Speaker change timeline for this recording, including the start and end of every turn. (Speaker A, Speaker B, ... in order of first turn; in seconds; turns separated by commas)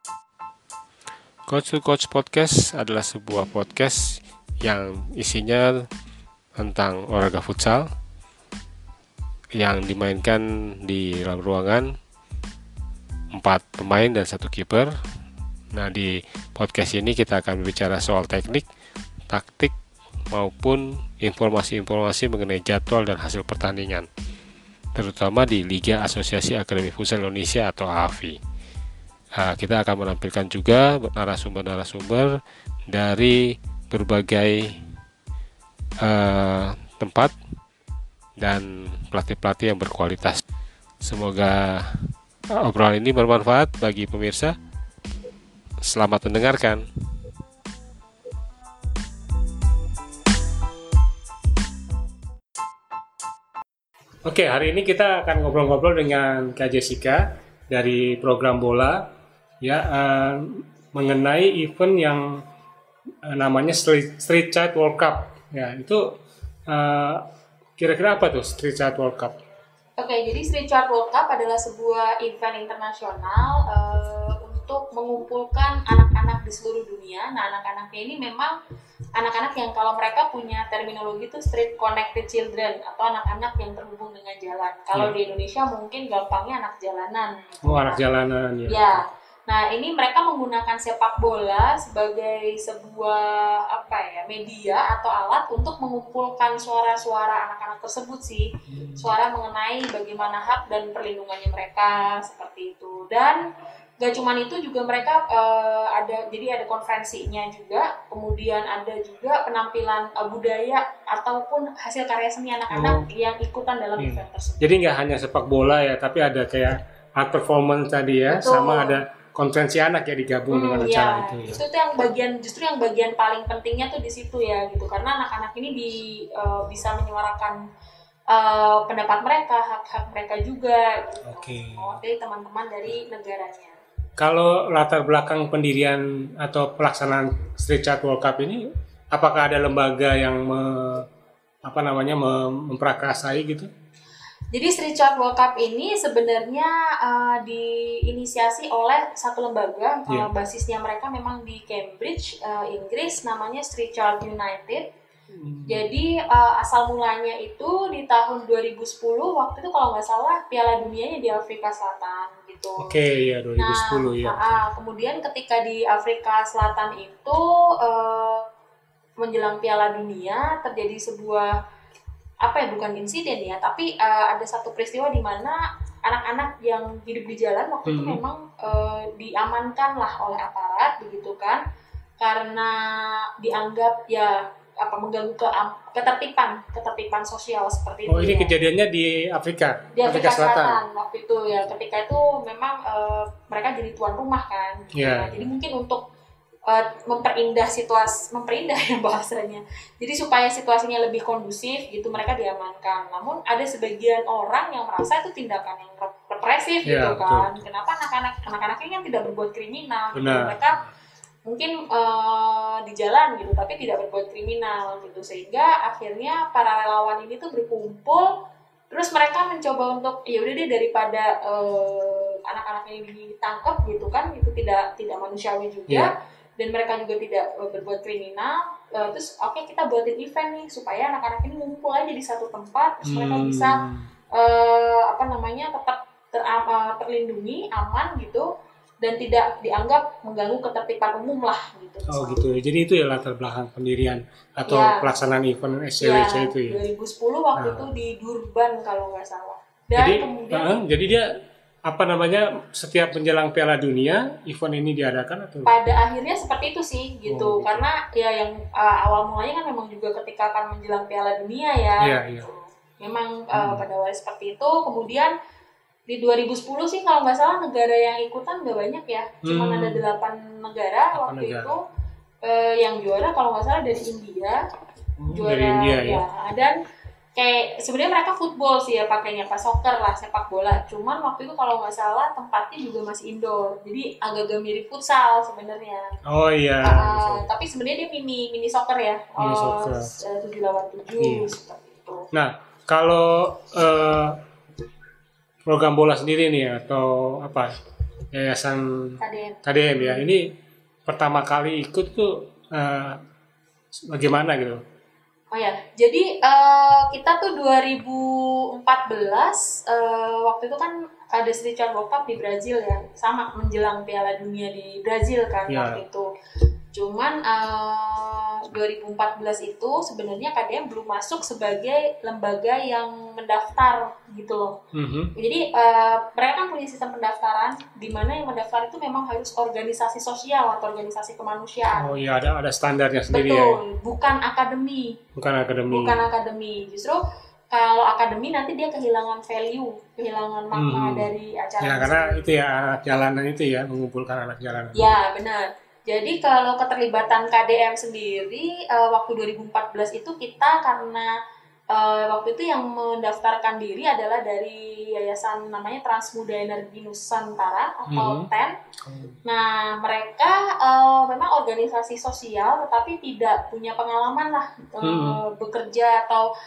Speaker A: 1.5-5.9, Speaker A: 6.6-7.9, Speaker A: 9.6-12.0, Speaker A: 13.3-14.9, Speaker A: 15.7-18.7, Speaker A: 19.3-19.7, Speaker A: 20.3-24.1, Speaker A: 24.9-28.4, Speaker A: 29.4-32.4, Speaker A: 32.9-34.8, Speaker A: 36.0-37.3, Speaker A: 38.4-40.4, Speaker A: 41.0-42.1, Speaker A: 42.6-44.6, Speaker A: 45.8-46.8, Speaker B: 54.3-59.0, Speaker B: 59.6-62.4, Speaker B: 63.3-66.0, Speaker B: 66.7-67.2, Speaker B: 67.8-69.4, Speaker C: 70.0-78.5, Speaker C: 79.2-88.0, Speaker B: 87.7-89.0, Speaker C: 88.7-103.4, Speaker B: 98.7-99.2, Speaker C: 104.0-114.7, Speaker B: 112.7-113.1, Speaker B: 114.0-121.6, Speaker C: 118.3-119.0, Speaker C: 120.5-127.6, Speaker C: 128.3-133.8, Speaker B: 131.3-132.0, Speaker B: 134.2-141.1, Speaker B: 141.7-143.7, Speaker C: 144.5-154.8, Speaker B: 155.4-155.9, Speaker C: 155.7-162.9, Speaker B: 162.8-164.6, Speaker C: 163.6-168.4, Speaker C: 169.2-171.6, Speaker C: 172.4-181.6, Speaker B: 177.9-178.2, Speaker C: 182.2-188.6, Speaker B: 188.1-190.8, Speaker C: 189.9-196.0, Speaker B: 195.0-195.5, Speaker C: 196.7-210.8, Speaker B: 206.9-207.5, Speaker B: 210.2-210.6, Speaker C: 211.5-218.3, Speaker C: 218.9-233.8, Speaker B: 233.1-234.1, Speaker C: 234.3-238.5, Speaker C: 239.0-242.4, Speaker B: 242.1-246.8, Speaker C: 244.7-245.1, Speaker C: 246.0-250.8, Speaker B: 247.6-247.9, Speaker B: 250.0-251.2, Speaker B: 251.9-255.7, Speaker C: 255.7-265.3, Speaker B: 257.3-257.9, Speaker B: 262.0-262.5, Speaker B: 263.5-263.9, Speaker C: 266.1-271.8, Speaker B: 269.4-270.0, Speaker B: 271.1-271.8, Speaker C: 272.4-274.6, Speaker B: 275.2-276.2, Speaker C: 275.3-276.8, Speaker C: 277.4-286.1, Speaker B: 286.3-287.4, Speaker C: 286.8-292.3, Speaker B: 289.4-290.1, Speaker B: 291.2-291.5, Speaker B: 292.3-294.4, Speaker B: 295.7-297.7, Speaker B: 298.3-300.5, Speaker C: 299.2-300.3, Speaker B: 301.1-303.2, Speaker B: 304.1-304.8, Speaker C: 305.5-316.3, Speaker B: 315.7-316.0, Speaker C: 316.9-324.8, Speaker B: 324.9-325.3, Speaker C: 325.4-332.1, Speaker B: 332.0-333.8, Speaker C: 333.3-335.2, Speaker B: 335.4-336.2, Speaker C: 335.9-342.5, Speaker B: 340.7-341.3, Speaker B: 341.8-345.1, Speaker C: 344.9-351.3, Speaker C: 351.9-358.8, Speaker B: 358.1-358.5, Speaker B: 359.1-359.4, Speaker C: 359.4-366.5, Speaker B: 365.0-365.4